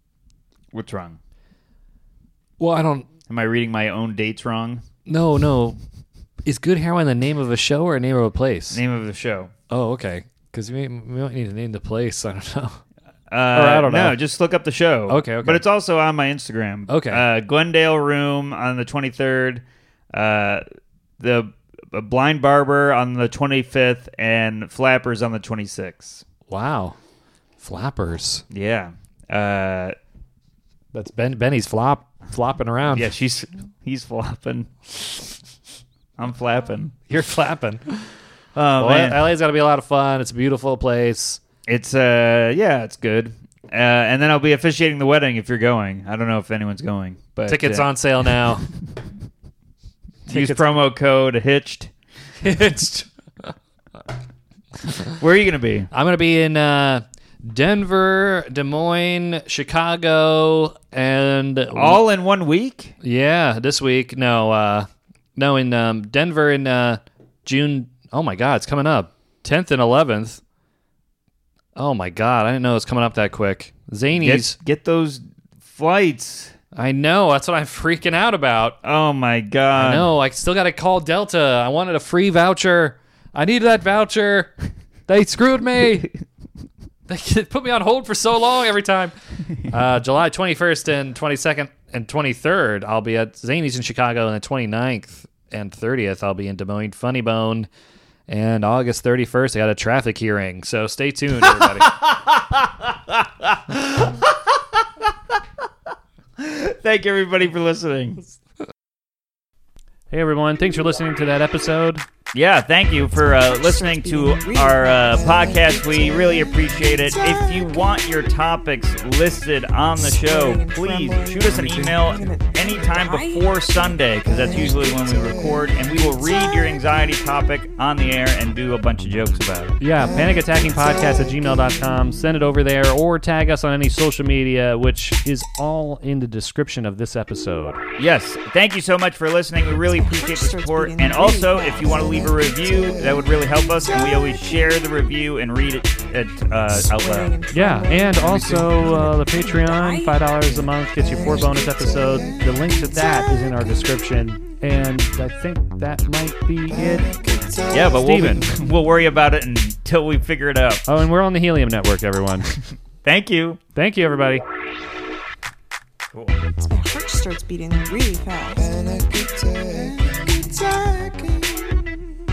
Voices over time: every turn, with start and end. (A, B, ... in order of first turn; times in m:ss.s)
0:00.7-0:01.2 A
0:02.6-0:03.1 B
0:03.3-0:04.8 A
0:05.1-0:05.8 B
0:06.5-0:08.8 B
0:08.7-0:09.5 A
0:09.7-0:12.8 B
0:13.3-0:20.6 A
0:13.5-0:14.2 B
0:15.1-0:15.6 B
0:16.9-0:17.2 B
0:21.2-0:26.2 A
0:26.5-0:27.0 B
0:27.6-0:28.4 B
0:28.5-0:30.0 A
0:30.9-0:33.1 B
0:32.9-0:34.9 A
0:36.2-0:36.9 A
0:37.1-0:38.0 B
0:38.6-0:39.4 A
0:38.8-0:41.4 B
0:41.7-0:47.9 A
0:47.5-0:48.7 B
0:50.3-0:50.7 B
0:50.3-0:51.9 A
0:52.4-0:53.5 B
0:55.0-0:55.9 A
0:55.9-1:02.0 B
1:01.7-1:02.9 A
1:03.0-1:10.4 B
1:11.8-1:14.6 B
1:14.2-1:16.6 A
1:16.7-1:18.8 B
1:18.8-1:20.1 A
1:19.7-1:24.5 B
1:25.1-1:26.1 B
1:27.1-1:37.7 B
1:38.3-1:42.0 B
1:41.5-1:45.1 A
1:46.4-1:48.3 A
1:50.1-1:52.0 B
1:52.3-2:09.8 A
1:53.3-1:56.5 C
2:00.0-2:05.3 C
2:09.8-2:17.8 B
2:18.0-2:27.4 A
2:19.9-2:24.4 C
2:26.7-2:32.3 C
2:27.5-2:37.2 B
2:37.7-2:40.8 A
2:38.0-2:38.5 B
2:40.9-2:42.5 B
2:43.0-2:43.6 A
2:43.8-2:44.4 B
2:46.6-2:51.2 C